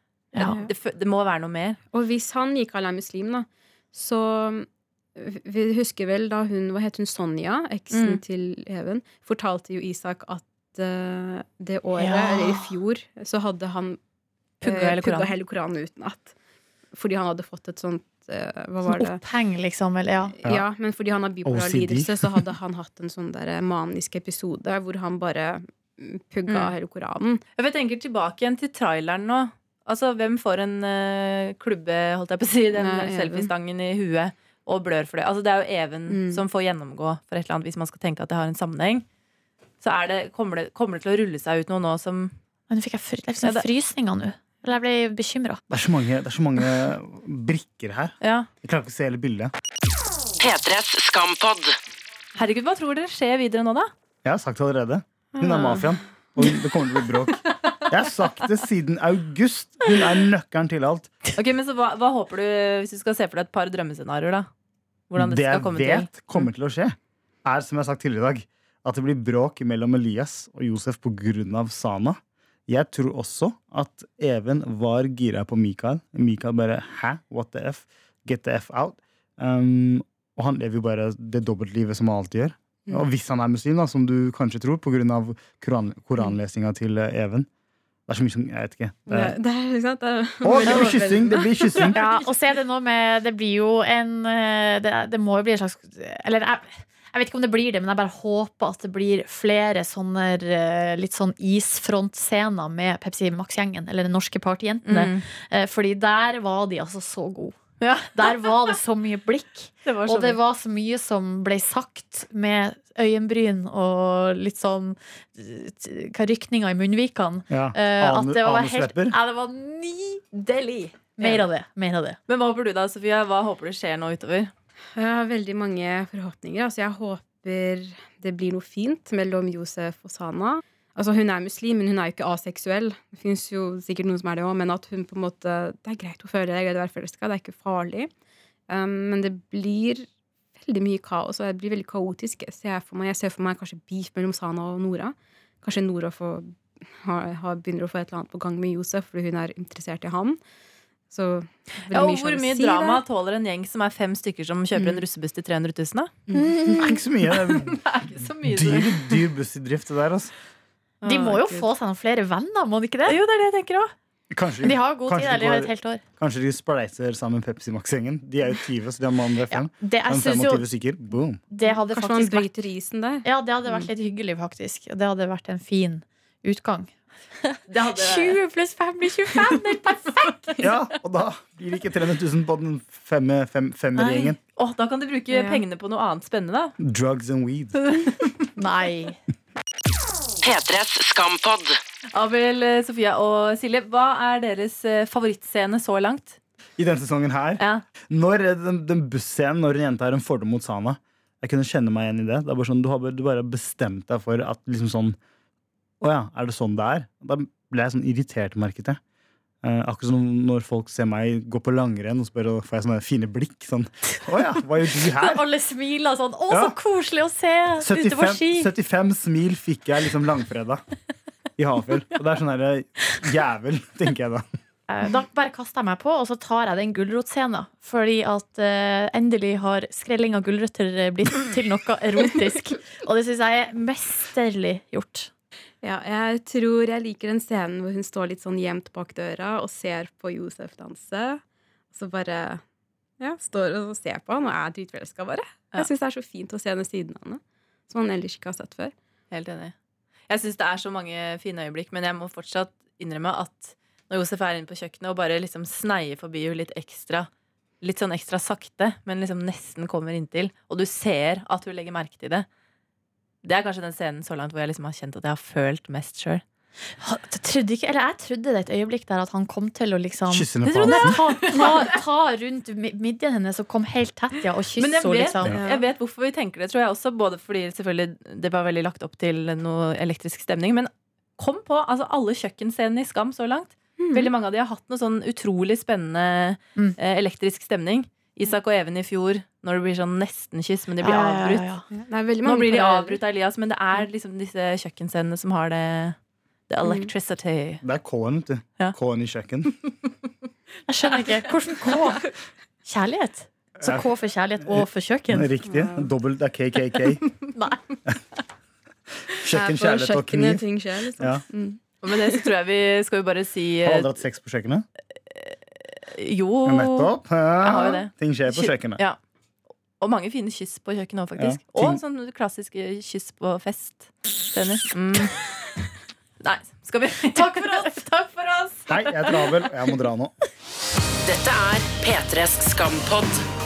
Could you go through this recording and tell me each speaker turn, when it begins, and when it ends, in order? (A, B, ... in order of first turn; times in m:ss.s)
0:00.4-0:00.7 A
0:00.4-0:01.8 B
0:01.9-0:14.0 A
0:07.9-0:08.2 B
0:12.0-0:12.7 C
0:14.6-0:15.3 B
0:14.6-0:16.3 A
0:16.9-0:19.2 A
0:18.9-0:20.4 C
0:20.4-0:27.4 A
0:21.4-0:22.4 D
0:26.5-0:26.7 B
0:27.6-0:39.0 B
0:32.8-0:33.5 A
0:36.1-0:36.4 A
0:39.8-0:42.4 B
0:42.7-0:45.6 C
0:45.7-0:49.5 D
0:48.2-0:48.5 B
0:50.4-0:51.7 E
0:52.4-0:53.9 B
0:54.2-1:01.1 D
1:01.4-1:04.5 B
1:05.1-1:06.5 B
1:05.2-1:27.5 D
1:28.1-1:29.4 D
1:29.1-1:32.1 A
1:30.4-1:32.0 D
1:31.9-2:02.2 C
1:44.9-1:45.2 B
1:47.8-1:48.7 B
1:49.8-1:50.4 B
1:57.5-1:59.2 D
2:01.2-2:01.5 B
2:02.3-2:04.5 B
2:05.0-2:18.1 A
2:18.7-2:30.4 A
2:31.1-2:33.0 A
2:31.9-2:36.2 B
2:36.3-2:37.0 C
2:36.8-2:37.8 D
2:37.6-2:39.2 B
2:38.4-2:40.3 D
2:41.0-2:41.6 B
2:41.0-2:43.2 C
2:43.1-2:43.9 B
2:44.3-2:51.4 D
2:44.6-2:46.0 C
2:49.5-2:50.6 C
2:51.5-2:52.5 C
2:51.7-2:53.3 A
2:53.2-2:57.0 C
2:57.7-3:00.6 C
2:57.8-2:58.4 B
3:00.6-3:04.4 D
3:04.0-3:04.3 C
3:04.6-3:06.8 B
3:05.3-3:05.6 A
3:06.8-3:07.8 D
3:07.9-3:08.3 B
3:08.6-3:09.2 C
3:10.4-3:11.8 E
3:12.1-3:16.4 B
3:16.8-3:25.2 D
3:17.6-3:17.8 B
3:26.0-3:29.0 D
3:29.6-3:35.4 D
3:35.2-3:38.7 C
3:36.5-3:36.8 D
3:37.8-3:40.8 D
3:41.6-3:44.4 D
3:44.9-3:55.3 C
3:55.8-4:01.4 A
4:01.9-4:02.6 A
4:03.2-4:08.9 A
4:09.3-4:09.7 B
4:10.3-4:17.3 B
4:17.8-4:22.5 B
4:23.4-4:26.4 B
4:27.0-4:35.5 C
4:30.3-4:31.2 D
4:30.6-4:31.9 B
4:34.8-4:51.7 B
4:35.5-4:35.9 A
4:44.0-4:44.3 A
4:51.0-4:51.8 C
4:51.9-4:53.2 A
4:52.4-4:56.2 B
4:56.7-4:57.8 B
4:56.8-4:57.1 A
4:57.8-4:59.7 D
5:00.9-5:02.3 C
5:02.8-5:05.5 C
5:03.8-5:04.1 D
5:04.6-5:07.2 D
5:05.7-5:06.1 A
5:07.6-5:07.8 C
5:09.3-5:10.7 D
5:09.5-5:12.4 A
5:11.2-5:11.4 D
5:12.0-5:14.2 B
5:13.8-5:14.9 D
5:16.1-5:19.2 B
5:16.7-5:19.0 D
5:20.0-5:25.4 B
5:21.4-5:22.0 D
5:26.4-5:28.0 B
5:27.3-5:29.3 C
5:28.9-5:30.3 D
5:31.2-5:33.4 E